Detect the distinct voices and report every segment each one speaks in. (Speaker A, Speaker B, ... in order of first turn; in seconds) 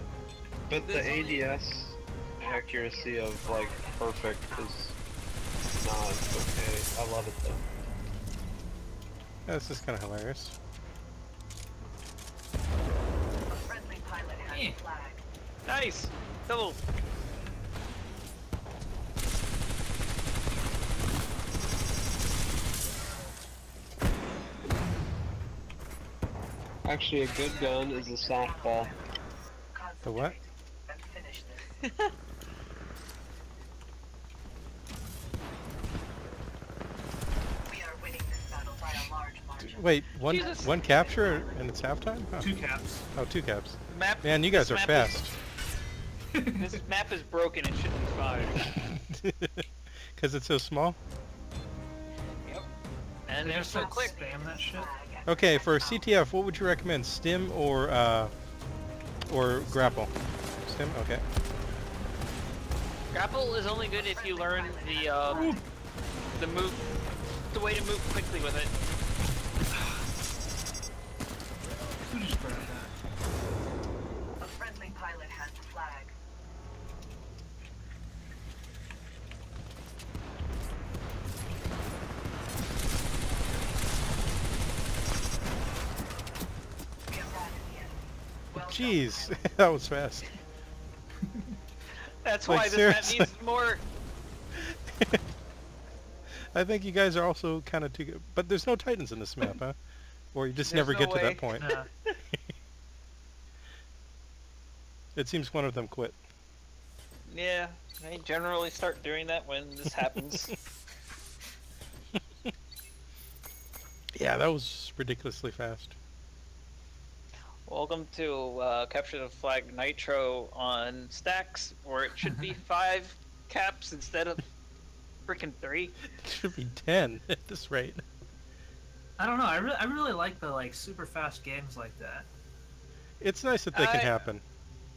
Speaker A: 0.7-5.0, 5.7-7.7, 26.9-28.9
Speaker B: 0.8-1.6, 15.7-16.8, 40.2-40.7, 43.9-45.3, 46.6-48.6, 53.2-54.2, 63.1-65.5, 66.3-66.9, 67.5-68.7, 92.0-93.8, 100.6-102.1, 107.3-110.5, 117.7-124.5, 125.2-126.0, 133.7-134.3
Speaker C: 2.4-4.8, 13.5-15.2, 27.3-29.2, 29.7-31.9, 37.6-41.6, 53.6-56.1, 63.9-65.7, 74.4-76.1, 87.1-89.5
Speaker D: 9.4-10.5, 30.0-30.4, 39.6-42.5, 43.1-45.4, 48.6-51.0, 55.2-58.3, 59.3-60.1, 60.6-61.2, 88.5-90.3, 92.5-93.3, 94.9-95.2, 96.5-99.8, 100.3-101.7, 105.1-106.2, 114.1-115.9, 126.2-128.0, 133.2-134.4
Speaker E: 14.5-14.8, 42.4-43.0, 46.3-46.8, 53.4-54.9, 65.3-65.6, 69.7-70.0, 72.0-72.9, 101.6-101.9, 129.2-132.3